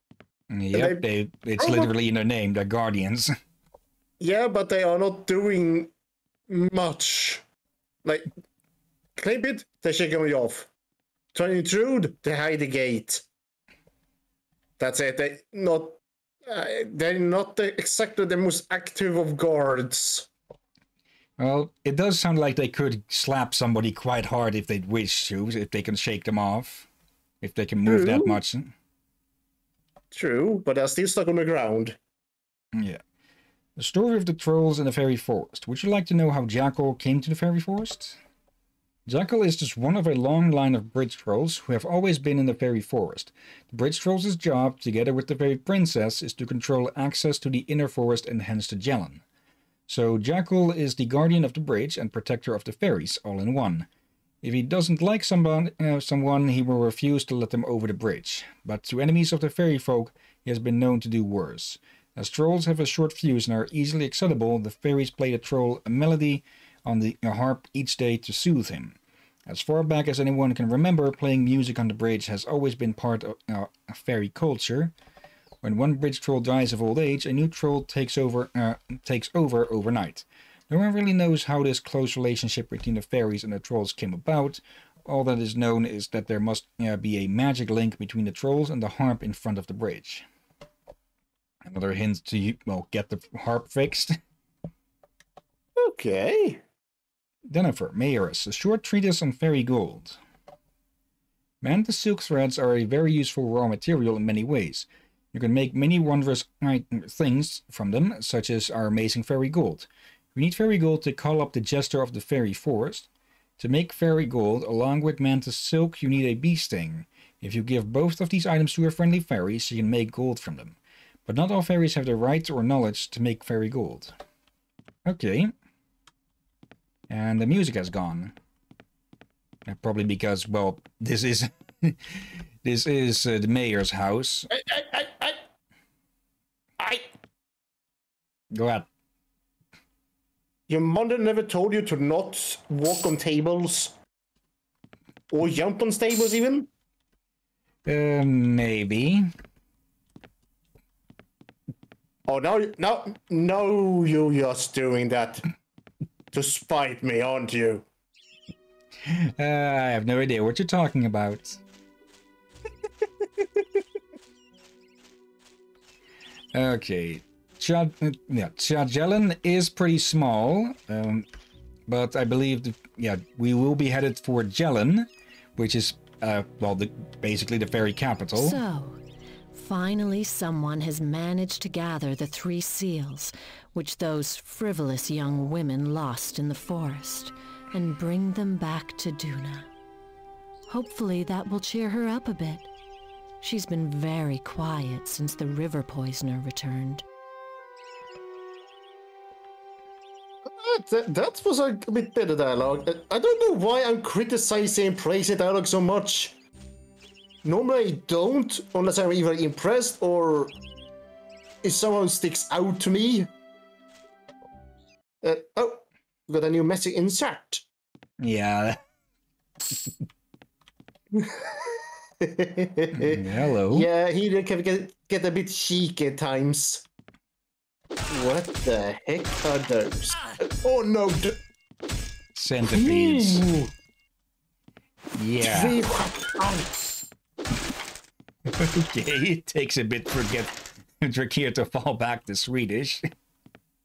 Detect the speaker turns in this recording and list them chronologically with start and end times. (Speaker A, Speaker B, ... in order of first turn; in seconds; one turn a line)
Speaker A: 0.5-3.3
Speaker B: 0.7-1.0
Speaker B: 1.6-1.9
Speaker B: 4.2-5.9
Speaker B: 6.5-7.4
Speaker B: 9.2-10.7
Speaker B: 11.3-13.2
Speaker B: 14.8-20.3
Speaker A: 21.4-26.9
Speaker A: 27.4-28.7
Speaker B: 27.8-28.4
Speaker B: 30.1-32.0
Speaker A: 32.8-33.0
Speaker A: 33.8-38.2
Speaker A: 39.0-49.2
Speaker A: 49.9-53.9
Speaker A: 54.4-69.0
Speaker A: 69.5-74.9
Speaker A: 75.6-90.2
Speaker A: 91.6-94.2
Speaker B: 95.8-96.6
Speaker A: 97.5-100.2
Speaker A: 101.6-124.1
Speaker A: 125.0-125.5
Speaker A: 127.1-128.3
Speaker A: 129.7-134.5
Speaker B: 134.5-135.4
Speaker B: 136.8-137.1
Speaker A: 138.5-138.9
Speaker B: 140.7-143.9
Speaker B: 145.3-146.7
Speaker A: 147.8-149.3
Speaker B: 152.2-155.4
Speaker B: 156.3-157.8
Speaker A: 159.0-161.6
Speaker A: 166.5-171.2
Speaker A: 171.9-178.6
Speaker C: 178.3-179.0
Speaker C: 179.5-189.7
Speaker C: 190.7-192.7
Speaker C: 193.4-197.0
Speaker B: 200.4-206.3
Speaker B: 207.4-210.5
Speaker B: 211.6-213.3
Speaker B: 215.2-217.6
Speaker A: 218.2-218.8
Speaker B: 221.1-226.8
Speaker A: 222.9-223.9
Speaker B: 228.1-231.4
Speaker A: 232.3-233.4
Speaker B: 232.7-233.7
Speaker A: 235.1-235.8
Speaker B: 235.4-236.7
Speaker A: 238.5-243.1